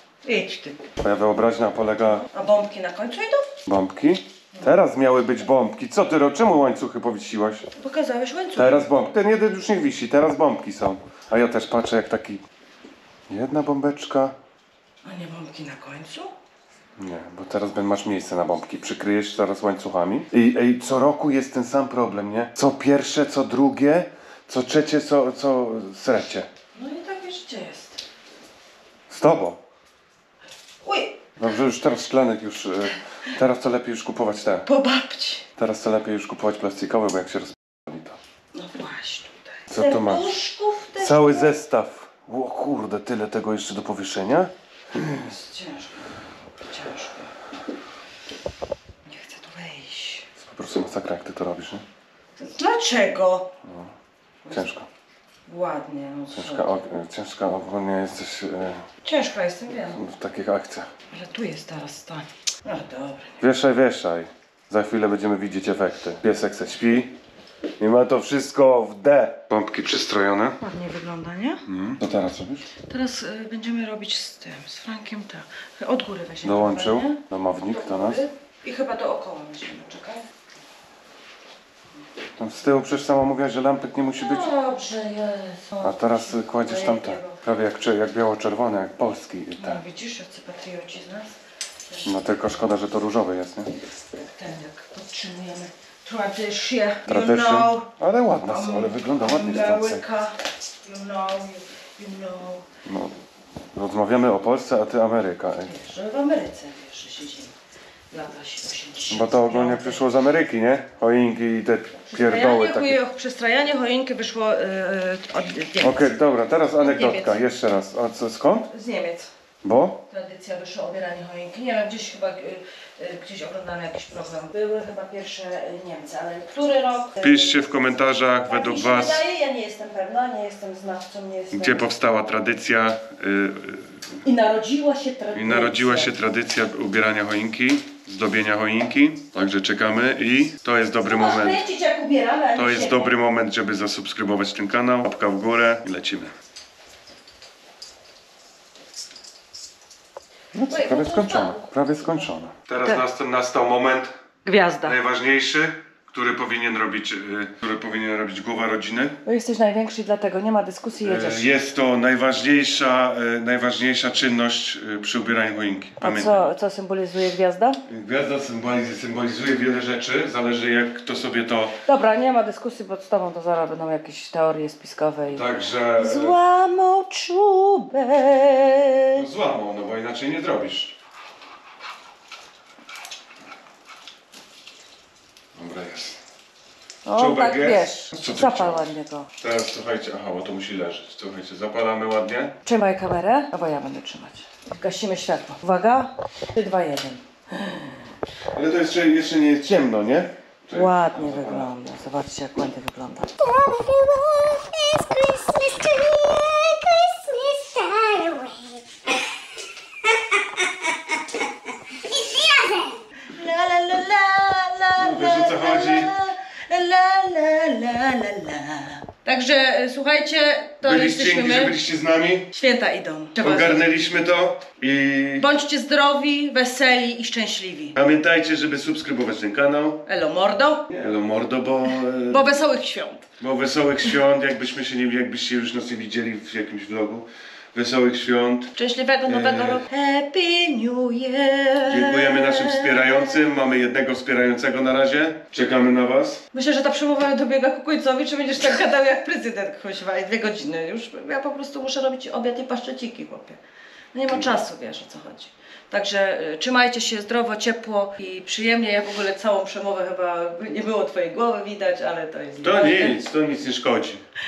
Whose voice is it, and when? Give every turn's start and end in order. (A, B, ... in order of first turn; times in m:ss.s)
0:00.2-0:00.8 A
0:01.0-0:02.3 B
0:02.1-0:03.6 A
0:03.7-0:07.7 B
0:07.8-0:08.9 A
0:08.6-0:12.4 B
0:13.3-0:14.4 B
0:15.0-0:16.3 A
0:17.0-0:26.5 B
0:26.8-0:28.0 A
0:29.1-0:29.6 B
0:30.8-0:31.3 A
0:31.4-0:34.7 B
0:34.7-0:35.5 A
0:35.6-0:38.2 B
0:38.5-0:41.6 A
0:39.7-0:40.3 B
0:41.0-0:45.2 B
0:45.0-0:46.0 A
0:46.7-0:47.3 A
0:49.1-0:50.3 A
0:50.4-0:51.8 B
0:52.4-0:53.5 A
0:53.6-0:53.9 B
0:54.5-0:54.9 B
0:55.5-0:56.8 A
0:56.3-0:58.9 B
0:59.0-1:00.0 A
0:59.9-1:00.9 B
1:01.1-1:03.4 A
1:03.4-1:07.2 B
1:07.8-1:10.6 B
1:10.6-1:11.6 A
1:11.7-1:12.7 B
1:12.9-1:20.3 A
1:16.4-1:18.2 B
1:22.4-1:24.5 B
1:24.2-1:27.4 A
1:25.8-1:29.8 B
1:29.6-1:31.4 A
1:31.9-1:32.6 A
1:32.0-1:33.7 B
1:34.1-1:37.9 A
1:37.1-1:40.0 B
1:38.4-1:42.6 A
1:42.8-1:43.2 B
1:43.7-1:45.7 B
1:45.6-1:47.6 A
1:48.1-1:50.0 A
1:49.1-1:53.0 B
1:52.1-1:56.2 A
1:55.8-1:58.7 B
1:56.8-1:57.5 A
1:58.7-1:59.3 A
1:59.6-2:00.0 B
2:00.1-2:07.7 A
2:07.2-2:09.2 B
2:08.4-2:11.9 A
2:11.5-2:14.0 B
2:14.2-2:16.2 A
2:15.3-2:21.6 B
2:21.1-2:23.1 A
2:22.6-2:26.3 B
2:30.5-2:34.1 B
2:30.7-2:31.7 A
2:34.4-2:35.0 A
2:34.8-2:39.2 B
2:39.3-2:41.5 A
2:41.0-2:46.5 B
2:46.0-2:47.8 A
2:47.9-2:51.8 B
2:51.9-2:55.4 A
2:55.3-2:56.4 B
2:56.0-2:59.2 A
2:59.2-3:00.9 B
3:05.6-3:06.2 B
3:07.0-3:09.3 A
3:07.2-3:08.9 B
3:09.4-3:12.6 B
3:12.6-3:18.0 A
3:18.6-3:21.7 B
3:20.7-3:23.3 A
3:23.4-3:29.1 C
3:30.4-3:31.4 C
3:31.9-3:33.0 C
3:33.3-3:41.8 A
3:35.0-3:36.2 B
3:40.8-3:42.5 B
3:42.5-3:43.8 A
3:43.4-3:45.5 B
3:45.4-3:48.0 A
3:48.0-3:50.0 B
3:50.1-3:50.9 A
3:50.9-3:52.6 B
3:52.3-3:53.3 A
3:53.4-3:58.7 B
3:58.8-4:03.4 A
3:59.3-3:59.8 B
4:01.8-4:06.4 B
4:06.5-4:13.6 A
4:14.1-4:23.2 A
4:14.3-4:14.6 B
4:22.6-4:24.2 B